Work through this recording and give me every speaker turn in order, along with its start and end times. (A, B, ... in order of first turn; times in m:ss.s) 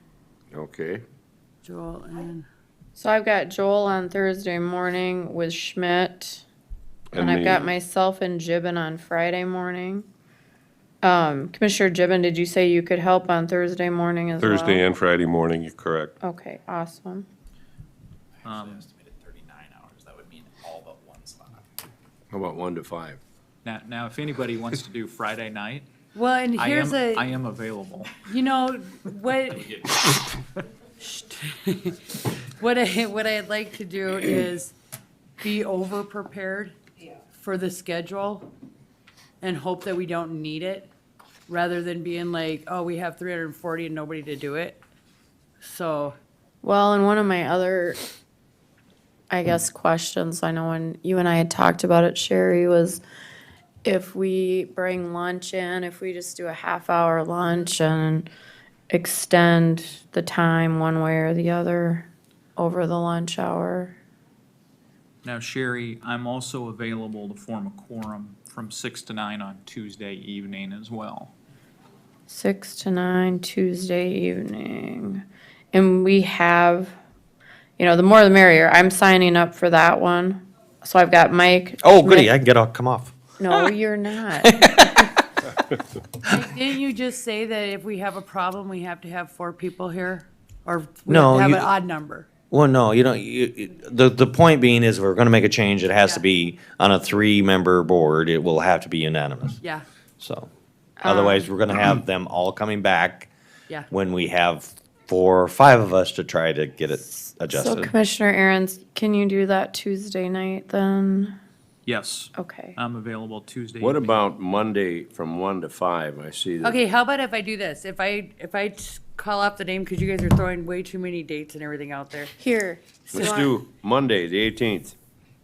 0:00.5-0:01.0 A
0:01.6-0:02.4 B
0:03.0-0:06.4 C
0:07.1-0:07.7 D
0:07.1-0:10.1 C
0:11.0-0:14.8 C
0:14.4-0:16.1 D
0:16.2-0:17.3 C
0:18.4-0:18.9 E
0:18.5-0:21.3 F
0:22.3-0:23.2 A
0:23.6-0:25.9 E
0:26.1-0:27.3 B
0:26.6-0:28.1 E
0:28.2-0:30.2 B
0:31.0-0:34.8 B
0:35.4-0:36.8 B
0:37.3-0:38.5 B
0:39.4-0:40.9 B
0:41.5-0:44.8 B
0:45.6-0:46.2 B
0:46.6-0:48.0 C
0:49.3-0:53.0 C
0:53.8-0:58.3 C
0:58.9-1:04.0 C
1:05.2-1:11.3 E
1:12.3-1:16.9 C
1:17.8-1:22.3 C
1:21.8-1:23.7 G
1:23.4-1:25.2 C
1:24.4-1:25.1 G
1:26.2-1:32.3 B
1:31.1-1:31.7 G
1:32.5-1:39.6 G
1:39.6-1:39.8 B
1:40.2-1:40.5 G
1:41.0-1:41.5 C
1:41.0-1:43.3 G
1:43.9-1:47.9 G
1:47.1-1:51.4 C
1:51.8-1:54.2 E
1:52.3-1:52.8 C
1:53.8-1:56.8 A
1:56.6-2:02.3 B
2:02.4-2:03.6 C
2:03.1-2:04.9 A